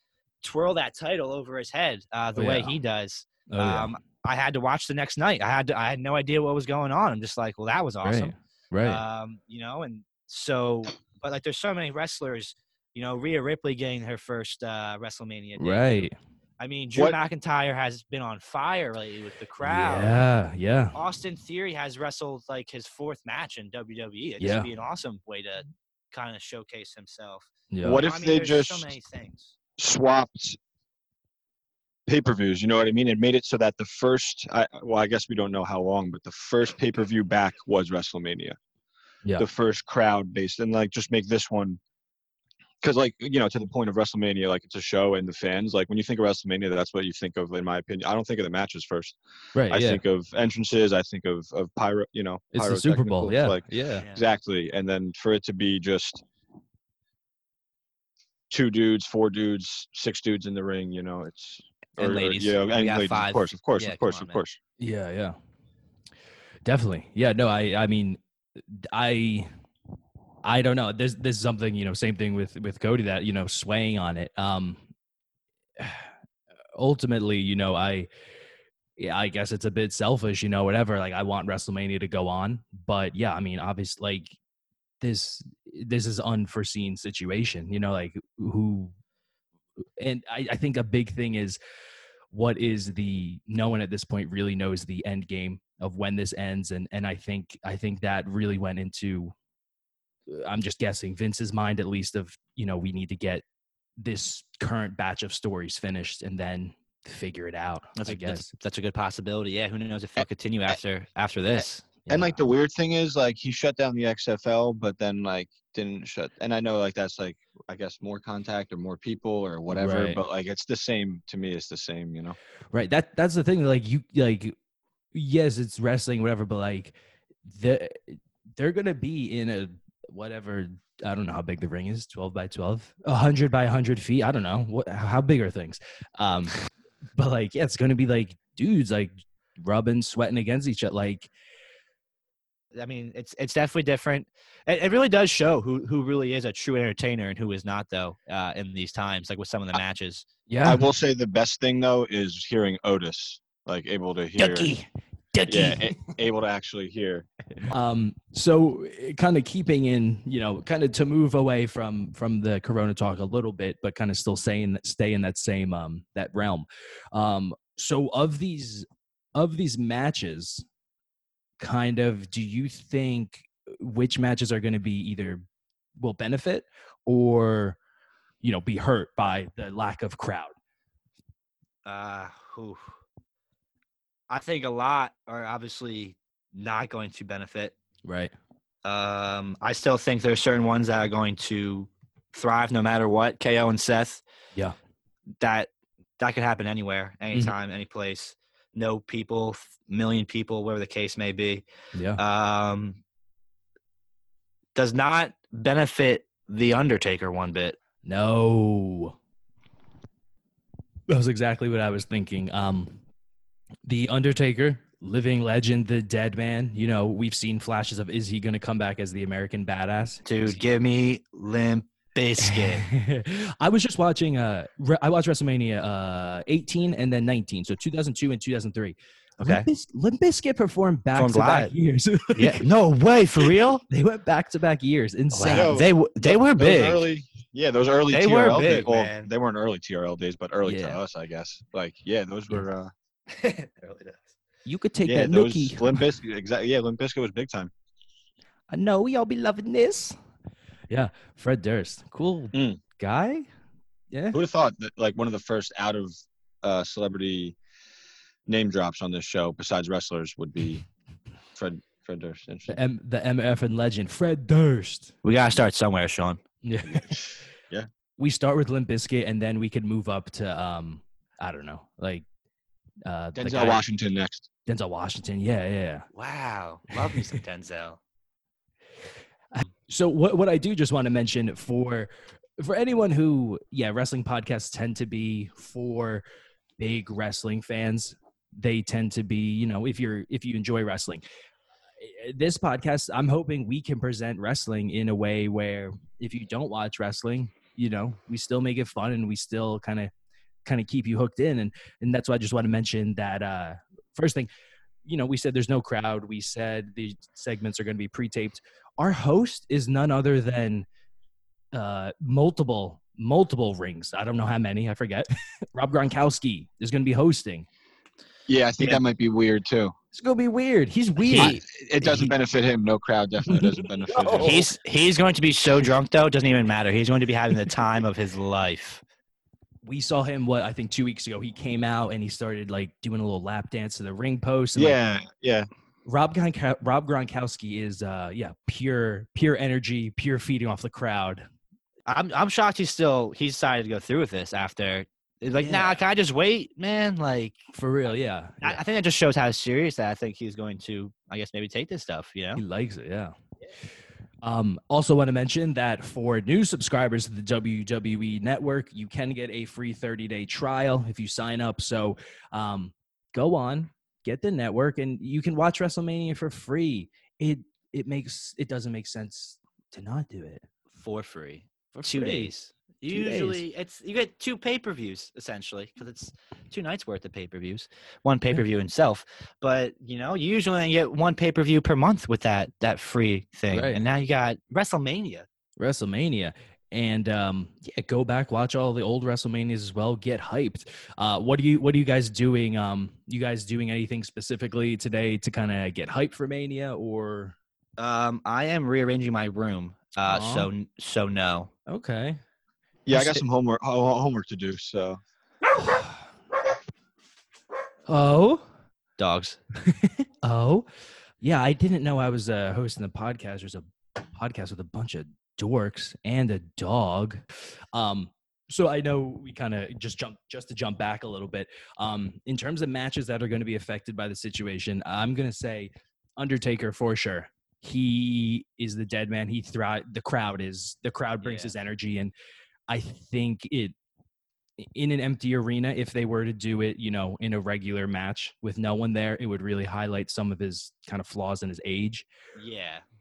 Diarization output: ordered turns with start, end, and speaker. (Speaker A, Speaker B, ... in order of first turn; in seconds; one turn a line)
Speaker A: 0.4-16.1
Speaker B: 2.4-2.7
Speaker B: 3.5-4.0
Speaker B: 8.0-9.0
Speaker B: 15.6-16.1
Speaker A: 16.6-20.2
Speaker B: 19.6-21.0
Speaker A: 20.9-29.6
Speaker B: 24.4-24.7
Speaker B: 27.7-28.0
Speaker C: 27.8-28.9
Speaker C: 29.8-30.6
Speaker C: 32.1-38.6
Speaker C: 39.4-41.8
Speaker C: 42.8-49.2
Speaker B: 49.5-50.0
Speaker C: 49.7-56.2
Speaker B: 52.5-54.1
Speaker C: 58.5-64.6
Speaker A: 62.0-64.4
Speaker B: 64.8-65.4
Speaker B: 66.7-69.5
Speaker B: 70.4-74.8
Speaker B: 75.8-76.1
Speaker B: 76.8-78.1
Speaker B: 79.0-84.4
Speaker B: 85.0-88.9
Speaker B: 90.0-91.6
Speaker B: 92.3-99.3
Speaker B: 100.3-103.4
Speaker B: 104.0-108.5
Speaker A: 108.0-111.9
Speaker B: 112.1-112.4
Speaker C: 112.1-122.4
Speaker B: 119.7-120.2
Speaker B: 122.7-124.6
Speaker B: 125.1-136.5
Speaker B: 137.2-141.3
Speaker A: 142.8-150.3
Speaker B: 150.5-150.9
Speaker C: 150.7-154.7
Speaker B: 154.4-156.0
Speaker C: 155.5-157.3
Speaker B: 157.7-170.7
Speaker B: 171.6-175.4
Speaker B: 176.0-177.8
Speaker B: 178.4-180.5
Speaker A: 181.8-182.9
Speaker A: 184.3-187.8
Speaker B: 188.0-188.3
Speaker A: 188.8-194.2
Speaker A: 195.4-195.7
Speaker A: 196.2-201.7
Speaker B: 201.9-202.2
Speaker A: 202.2-203.0
Speaker A: 204.8-207.8
Speaker B: 208.0-209.2
Speaker B: 211.1-213.0
Speaker B: 213.8-220.6
Speaker A: 220.2-222.8
Speaker B: 222.4-232.6
Speaker A: 229.4-229.7
Speaker A: 231.2-231.7
Speaker A: 232.4-233.8
Speaker B: 233.9-235.8
Speaker A: 235.3-237.0
Speaker C: 235.4-242.9
Speaker A: 238.1-239.3
Speaker B: 240.7-241.0
Speaker A: 243.3-244.3
Speaker B: 244.7-246.1
Speaker C: 245.1-247.7
Speaker B: 248.7-250.2
Speaker B: 250.9-253.5
Speaker C: 252.5-252.8
Speaker B: 254.1-254.4
Speaker C: 254.3-257.6
Speaker C: 258.5-260.8
Speaker C: 261.6-262.8
Speaker B: 262.7-265.1
Speaker A: 265.2-266.4
Speaker B: 266.6-267.3
Speaker C: 266.9-267.9
Speaker B: 268.2-272.2
Speaker B: 273.1-273.8
Speaker C: 273.4-274.5
Speaker B: 274.7-276.1
Speaker A: 276.1-278.0
Speaker B: 279.5-286.2
Speaker B: 286.8-291.2
Speaker B: 292.0-300.1
Speaker B: 300.6-304.5
Speaker B: 305.1-310.9
Speaker B: 311.7-317.7
Speaker C: 318.5-319.9
Speaker B: 320.1-322.3
Speaker A: 321.2-321.6
Speaker C: 321.4-324.7
Speaker B: 323.5-324.7
Speaker A: 324.4-329.0
Speaker B: 329.8-335.0
Speaker C: 334.8-335.7
Speaker B: 336.1-341.5
Speaker A: 342.1-347.6
Speaker B: 345.5-346.0
Speaker B: 347.7-348.8
Speaker A: 348.6-352.6
Speaker B: 352.6-353.3
Speaker B: 354.4-370.7
Speaker A: 370.9-385.5
Speaker B: 372.0-372.5
Speaker B: 373.1-373.6
Speaker B: 383.7-384.0
Speaker B: 385.8-397.6
Speaker A: 398.0-401.7
Speaker B: 400.3-400.7
Speaker B: 401.9-402.4
Speaker C: 403.1-405.2
Speaker B: 403.1-403.4
Speaker B: 405.8-406.1
Speaker B: 408.1-408.6
Speaker A: 409.2-409.6
Speaker B: 409.9-410.9
Speaker B: 411.4-432.3
Speaker A: 431.4-431.7
Speaker B: 432.9-433.9
Speaker B: 434.8-442.3
Speaker A: 442.6-443.1